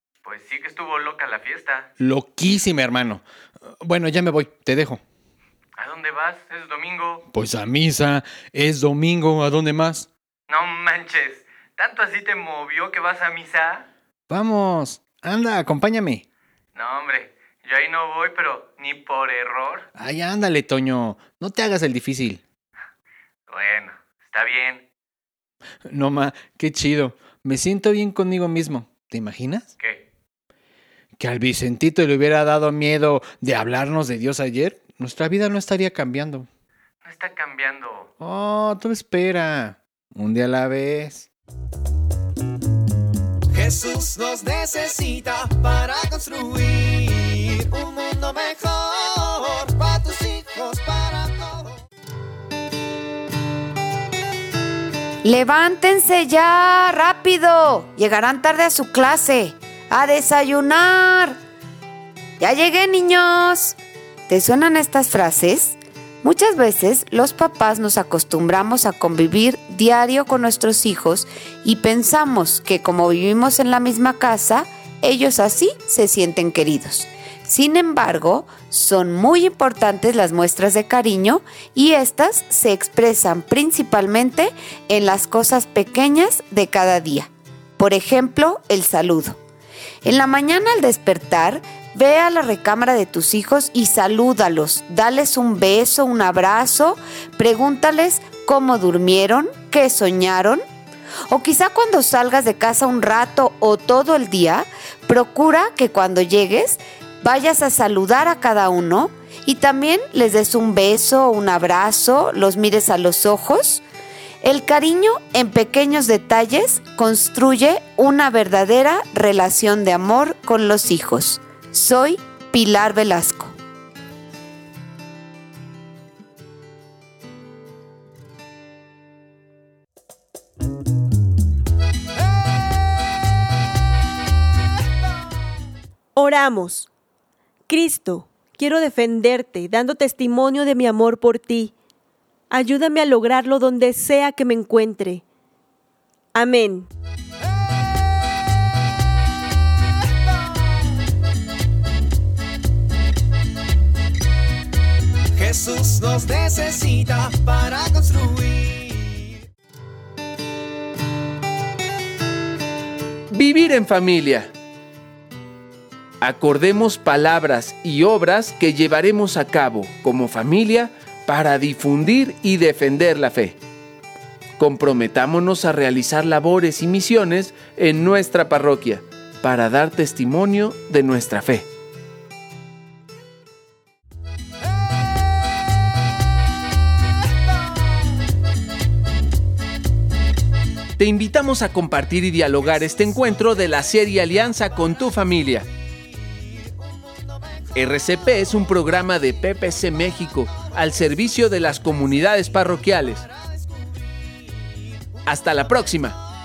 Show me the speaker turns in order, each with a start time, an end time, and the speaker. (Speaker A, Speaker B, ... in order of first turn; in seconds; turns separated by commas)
Speaker A: 0.2-1.9, Speaker B: 2.0-3.2, Speaker B: 3.8-5.0, Speaker A: 5.8-7.2, Speaker B: 7.3-10.1, Speaker A: 10.5-13.8, Speaker B: 14.3-16.2, Speaker A: 16.7-19.9, Speaker B: 19.9-22.4, Speaker A: 23.5-24.8, Speaker B: 25.9-29.7, Speaker A: 29.8-30.0, Speaker B: 31.2-36.5, Speaker A: 37.0-38.1, Speaker B: 38.2-41.3, Speaker C: 43.5-51.8, Speaker D: 55.2-61.4, Speaker D: 62.4-63.8, Speaker D: 64.3-89.4, Speaker D: 90.0-100.6, Speaker D: 101.3-113.8, Speaker D: 114.4-123.5, Speaker E: 136.2-136.9, Speaker E: 137.7-141.7, Speaker E: 142.5-145.2, Speaker E: 146.3-146.9, Speaker C: 155.3-159.3, Speaker F: 163.3-164.5, Speaker F: 166.2-173.6, Speaker F: 174.6-181.7, Speaker F: 191.0-195.7, Speaker F: 197.7-203.3, Speaker F: 205.2-206.2